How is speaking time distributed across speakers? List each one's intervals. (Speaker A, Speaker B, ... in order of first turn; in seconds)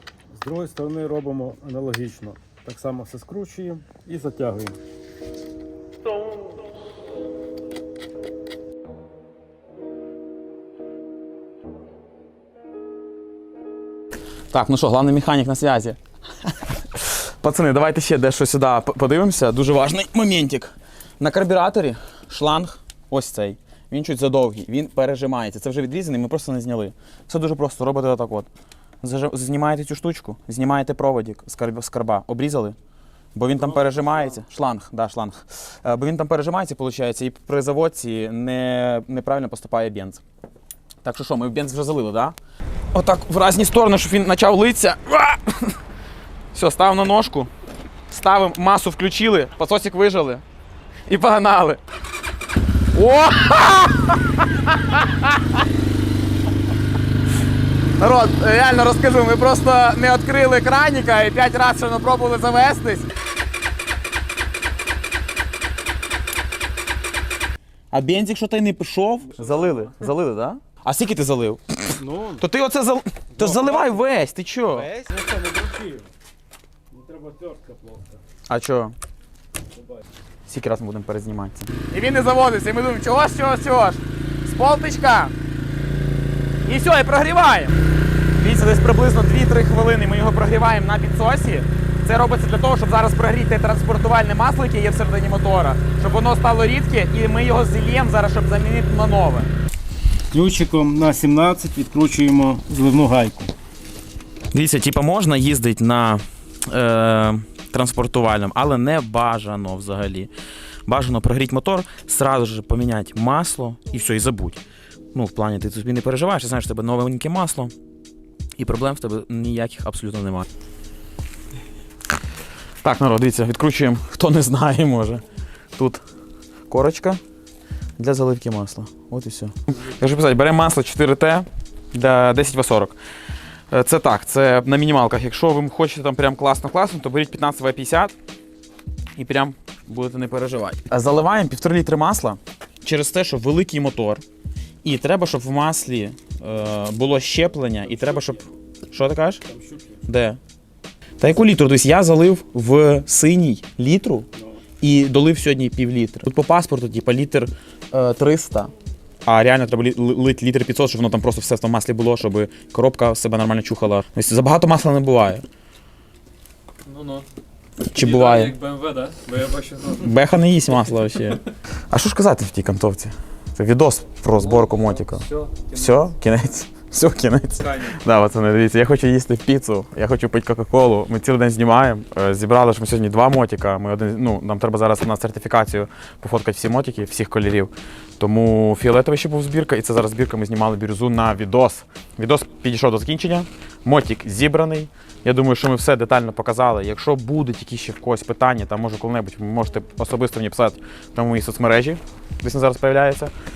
Speaker A: 0.3-4.8, 33.5-34.4, 69.4-69.9, 71.9-72.5, 73.3-74.0, 74.7-76.1, 76.9-78.2, 79.7-80.0, 100.3-103.5, 147.8-148.5, 149.4-150.0, 154.3-154.6
Speaker B: 14.5-28.5, 29.0-32.8, 33.3-40.2, 41.0-42.3, 42.9-45.8, 46.5-47.5, 48.1-50.4, 51.1-51.8, 52.9-55.4, 58.0-63.1, 67.9-74.9, 78.5-78.9, 80.5-85.3, 86.7-87.7, 88.4-99.5, 104.5-110.3, 110.8-114.6, 115.1-117.7, 118.6-120.4, 122.8-125.2, 126.7-127.2, 128.0-132.9, 133.7-138.1, 139.2-144.2, 144.8-149.4, 150.1-150.4, 151.2-154.3, 154.8-158.7, 159.2-165.4, 167.9-168.5, 170.0-175.2, 175.7-203.3
Speaker C: 166.8-167.2, 167.9-170.1, 174.4-176.1